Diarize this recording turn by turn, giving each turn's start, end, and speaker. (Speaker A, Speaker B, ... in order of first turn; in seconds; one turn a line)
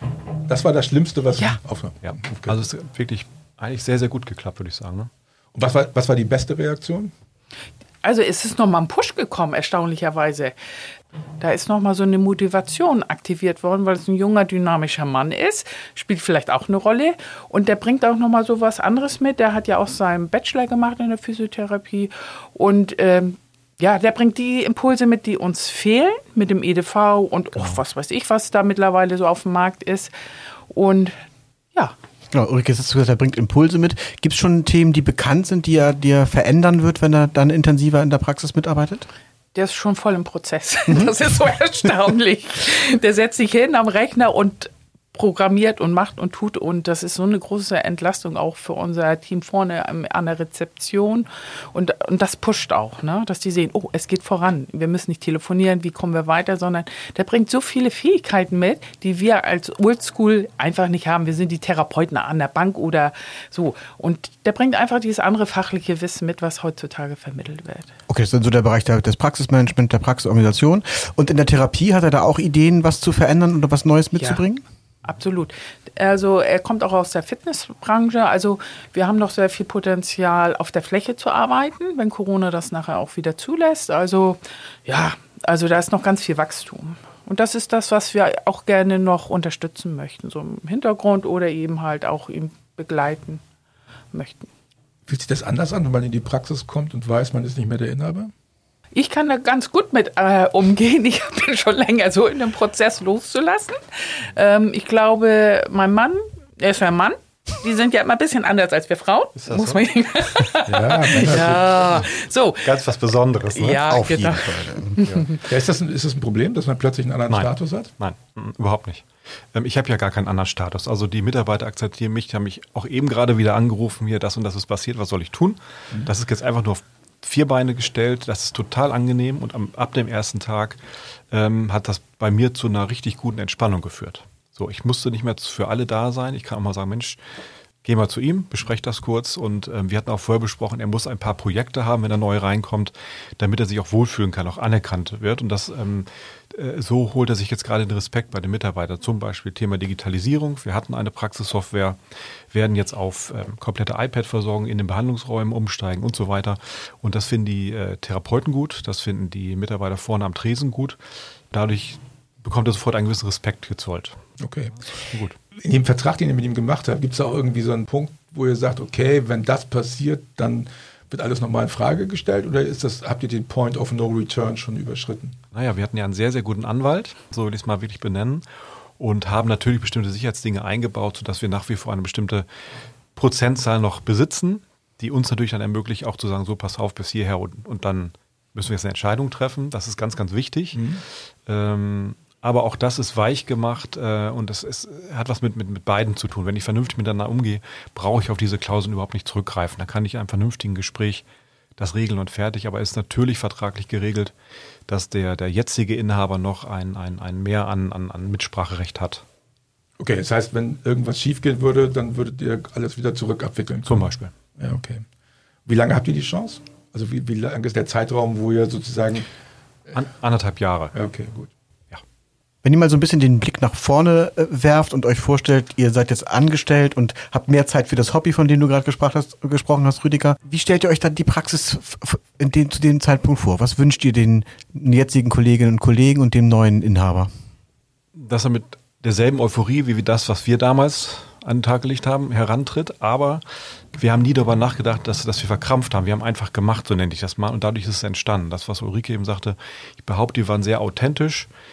Speaker A: 0.5-2.6
Speaker B: 2.0-5.1
Speaker A: 5.5-7.1
Speaker C: 8.0-10.6
Speaker C: 11.4-30.1
Speaker C: 30.7-31.2
Speaker D: 32.3-39.1
Speaker C: 39.5-67.9
Speaker D: 68.1-74.6
Speaker C: 75.0-93.4
Speaker C: 94.1-94.5
Speaker A: 95.1-98.3
Speaker C: 99.0-112.7
Speaker B: 109.4-109.8
Speaker A: 110.7-111.9
Speaker B: 112.6-113.9
Speaker C: 113.5-115.4
Speaker D: 113.8-115.0
Speaker B: 115.0-115.3
Speaker A: 115.4-117.9
Speaker B: 117.3-130.8
Speaker B: 131.3-137.2
Speaker B: 137.8-152.0
Speaker B: 152.5-161.0
Speaker B: 161.5-164.2
Speaker A: 164.4-164.8
Speaker B: 165.1-165.3
Speaker A: 165.6-175.4
Speaker B: 175.5-178.4
Speaker B: 179.0-182.4
Speaker B: 183.1-201.2
Speaker A: 190.7-191.0
Speaker B: 201.8-204.3
Speaker B: 204.9-209.2
Speaker A: 210.0-214.1
Speaker B: 213.8-214.3
Speaker A: 214.6-215.1
Speaker A: 215.7-219.3
Speaker B: 219.9-220.9
Speaker A: 220.9-221.5
Speaker D: 222.6-237.3
Speaker B: 238.1-243.4
Speaker B: 243.9-251.5